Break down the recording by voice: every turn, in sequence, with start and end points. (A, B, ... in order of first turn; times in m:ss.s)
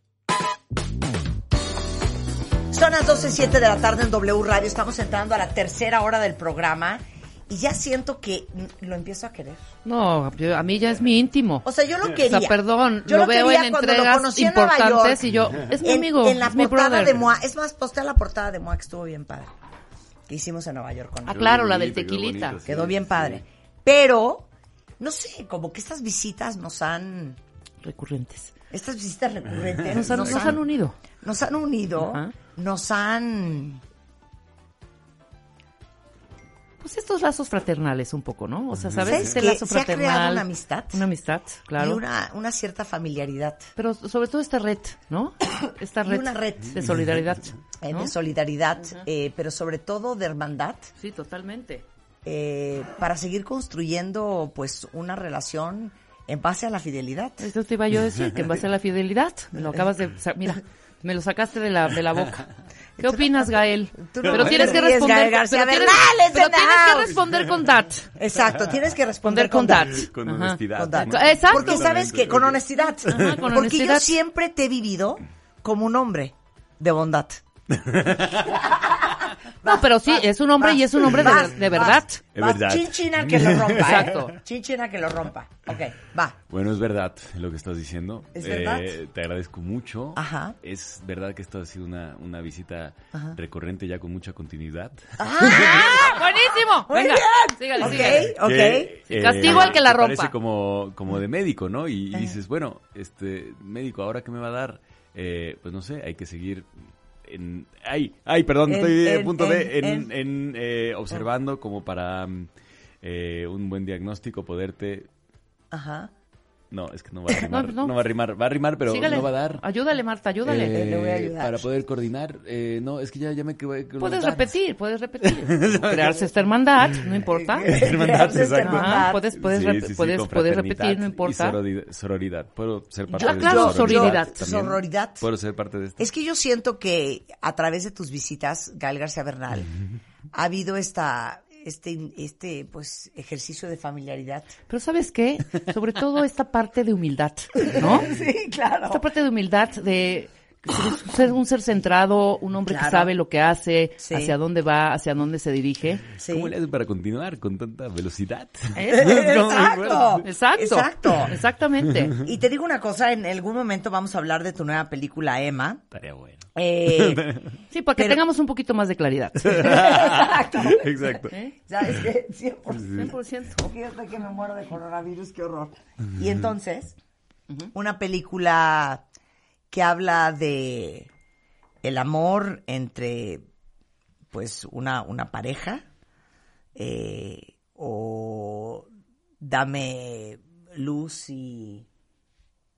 0:02.7-0:09.6 A
0:09.8-0:11.6 B
0:11.6-0:19.5 A
0:12.3-0:17.2 B
0:20.3-0:21.5 A
0:21.3-0:22.6 B
0:21.3-0:23.4 C
0:22.6-0:24.5 A
0:25.0-0:27.4 A
0:27.8-0:28.5 B
0:28.7-0:30.6 A
0:29.9-0:31.0 B
0:30.1-0:30.5 C
0:31.2-0:33.8 A
0:32.0-0:32.3 B
0:36.8-0:42.0 B
0:38.7-0:39.4 C
0:39.0-0:41.0 A
0:41.8-0:43.7 A
0:43.8-0:48.1 B
0:46.0-0:46.9 A
0:47.8-0:50.9 A
0:51.0-0:51.8 B
0:52.2-0:57.5 A
0:57.4-1:08.1 B
1:03.0-1:07.2 A
1:04.2-1:04.8 C
1:08.1-1:10.0 A
1:09.2-1:11.8 B
1:09.9-1:13.4 C
1:10.7-1:17.4 A
1:13.0-1:14.2 B
1:17.7-1:18.7 C
1:18.5-1:26.4 A
1:19.6-1:22.2 B
1:22.3-1:24.2 C
1:23.8-1:24.4 B
1:26.5-1:36.2 C
1:28.3-1:28.9 A
1:30.2-1:30.6 A
1:35.2-1:36.3 A
1:36.0-1:38.2 B
1:36.8-1:39.8 A
1:37.8-1:46.7 C
1:39.1-1:40.3 B
1:42.1-1:42.4 A
1:47.2-1:52.5 C
1:48.7-1:50.1 A
1:53.0-1:55.1 C
1:55.7-1:56.1 A
1:56.7-1:59.6 C
1:57.5-1:57.9 B
1:58.9-2:00.8 B
2:00.4-2:04.5 C
2:00.7-2:01.7 A
2:04.0-2:07.7 B
2:05.2-2:06.3 C
2:07.3-2:09.2 A
2:07.6-2:16.1 C
2:08.6-2:11.6 B
2:13.1-2:14.4 B
2:13.2-2:15.3 A
2:16.0-2:19.7 A
2:20.3-2:24.6 A
2:24.7-2:28.1 B
2:27.6-2:29.0 A
2:28.9-2:36.0 B
2:32.7-2:33.1 A
2:34.0-2:34.3 A
2:36.2-2:36.5 A
2:36.2-2:40.2 C
2:38.7-2:39.0 B
2:38.9-2:41.4 A
2:40.2-2:42.2 B
2:42.1-2:45.8 A
2:45.9-2:47.6 C
2:46.5-2:47.4 A
2:47.7-2:50.0 B
2:48.0-2:48.2 A
2:49.4-2:51.1 A
2:49.5-2:51.3 C
2:51.7-2:57.0 A
2:52.7-2:53.1 C
2:52.8-2:53.7 B
2:57.7-2:59.0 A
2:59.7-3:01.1 A
3:01.8-3:03.4 A
3:04.3-3:05.8 A
3:06.7-3:08.9 A
3:09.4-3:11.8 A